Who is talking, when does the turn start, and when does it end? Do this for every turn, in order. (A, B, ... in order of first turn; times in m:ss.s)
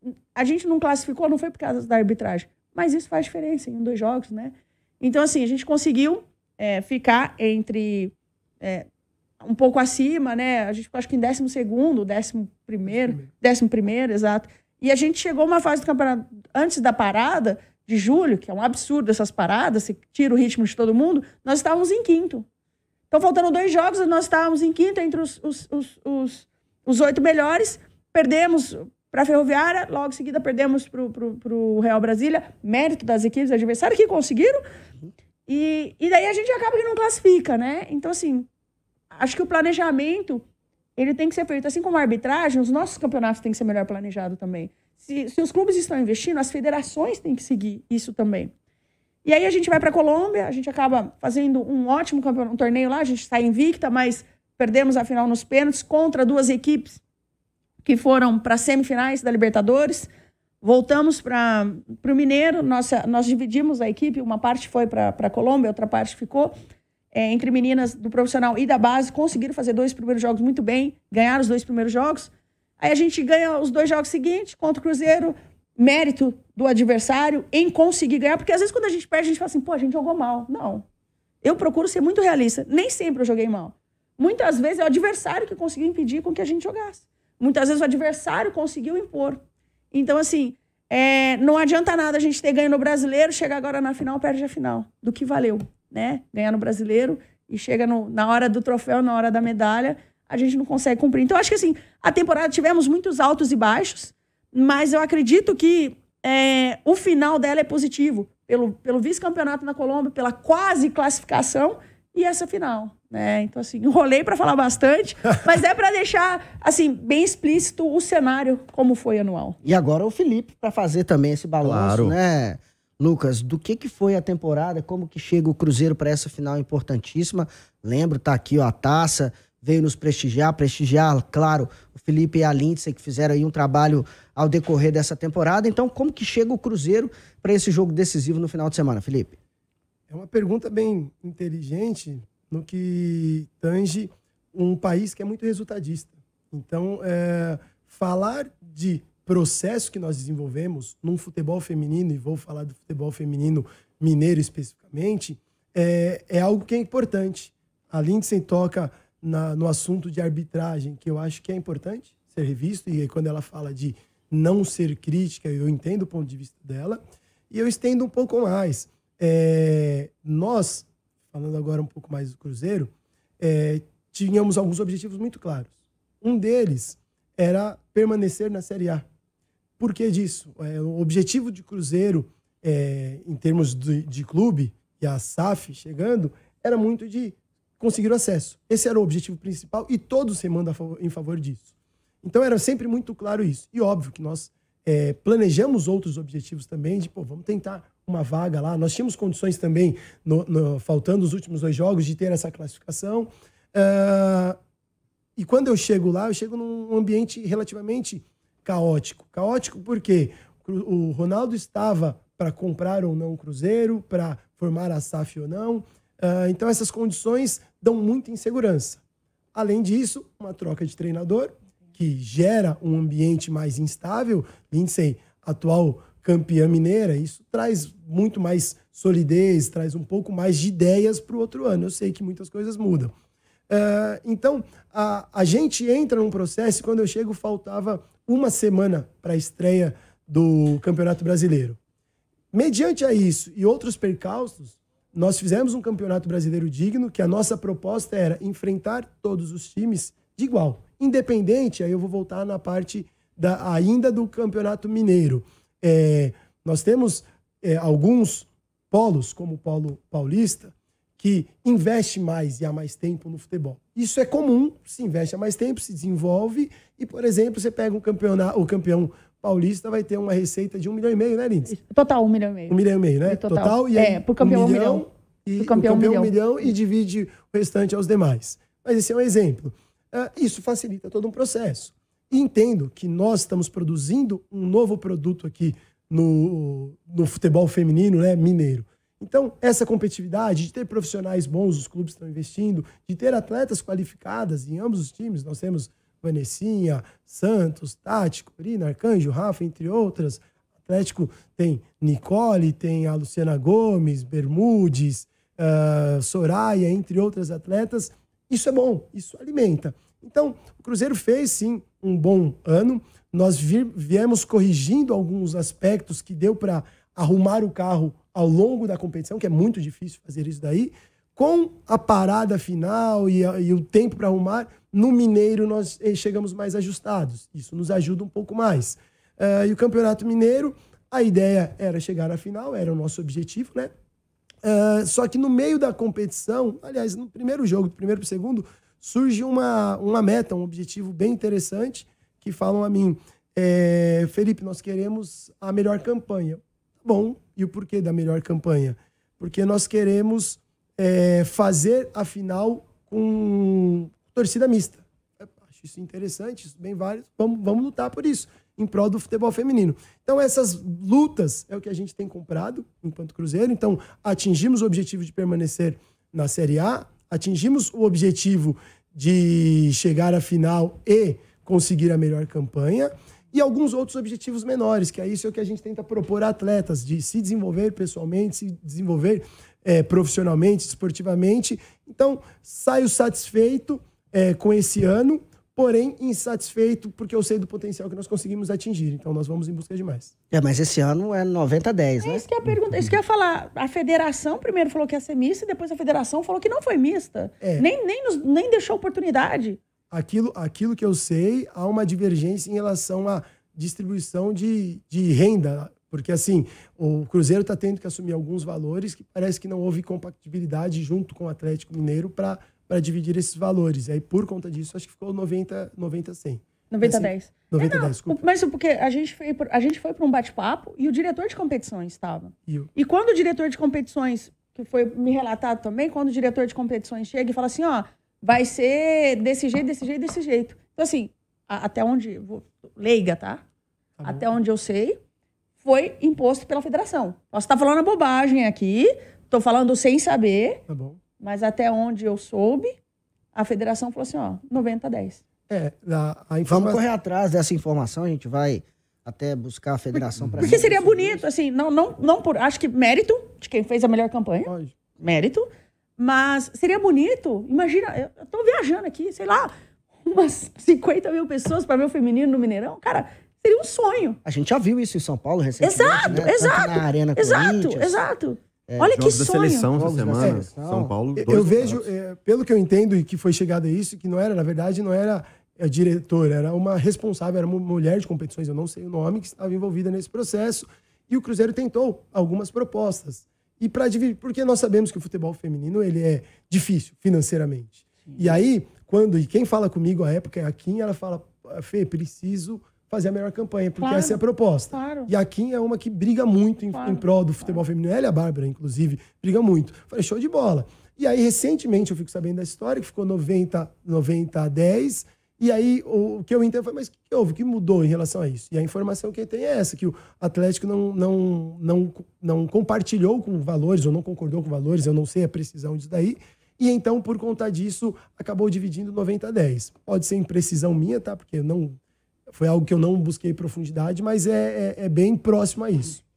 0:00.3-0:08.9 A
0:09.4-0:22.4 A
0:12.9-0:13.3 B
0:23.1-0:34.6 A
0:35.5-0:38.5 A
0:39.1-0:40.4 A
0:41.0-0:48.5 A
0:49.2-0:57.0 A
0:57.8-1:00.1 A
1:00.6-1:06.6 A
1:07.1-1:20.8 A
1:21.4-1:59.6 A
1:59.6-2:19.4 C
2:01.6-2:02.1 D
2:20.1-2:47.0 B
2:47.5-2:59.0 B
2:59.8-3:11.7 B
3:12.2-3:24.6 B
3:25.4-3:39.0 B
3:39.5-3:53.1 B
3:53.7-4:01.8 B
4:02.5-4:31.7 B
4:31.7-4:35.0 A
4:32.7-5:33.9 B
4:35.6-4:36.3 A
5:34.6-6:30.3 B
6:30.5-6:32.4 C
6:32.2-6:39.8 A
6:37.6-6:37.8 B
6:40.1-6:58.4 B
6:56.9-7:13.6 A
7:14.2-7:14.5 B
7:14.2-7:15.2 A
7:15.8-7:20.8 A
7:20.9-7:21.2 B
7:21.4-7:23.0 A
7:23.5-7:25.4 A
7:25.7-7:27.0 B
7:26.7-7:31.3 C
7:30.4-7:31.4 B
7:30.6-7:39.7 A
7:34.6-7:34.9 B
7:40.2-7:44.4 A
7:44.4-7:48.2 C
7:45.8-7:49.9 A
7:48.9-7:49.2 C
7:49.0-7:52.0 D
7:49.9-7:51.1 C
7:50.4-7:50.6 B
7:51.4-8:42.0 B
8:14.0-8:14.4 A
8:14.9-8:15.3 A
8:16.9-8:17.8 A
8:42.5-8:46.2 B